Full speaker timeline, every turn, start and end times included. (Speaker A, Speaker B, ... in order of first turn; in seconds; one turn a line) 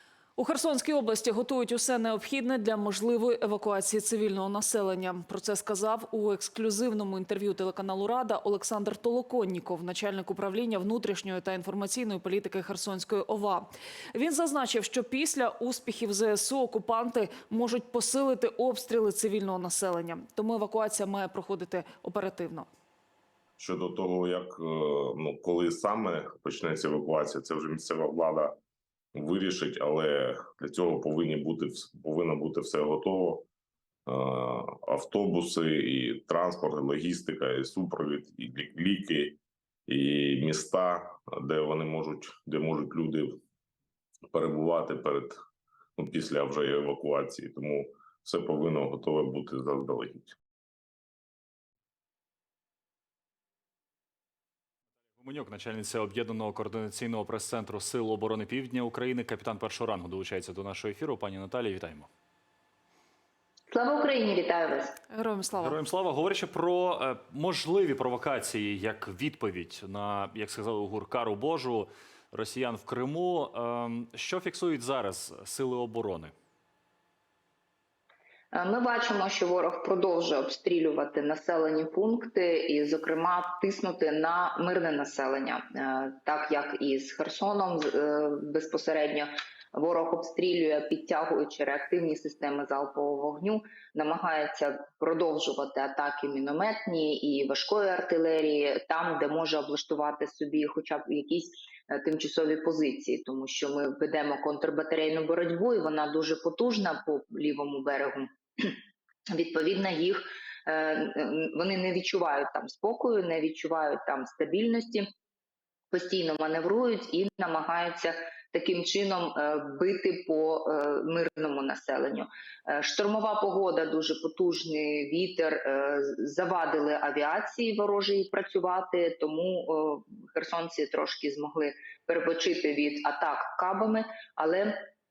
Speaker A: 0.3-22.7
Speaker B: 23.6-28.6
Speaker B: 29.1-33.5
Speaker B: 34.0-43.4
Speaker B: 44.3-45.4
Speaker B: 46.0-50.4
Speaker C: 55.2-62.1
Speaker D: 63.7-65.0
Speaker A: 65.1-65.8
Speaker C: 65.6-76.3
Speaker D: 78.5-108.8
Speaker D: 109.3-115.1
Speaker D: 115.9-134.8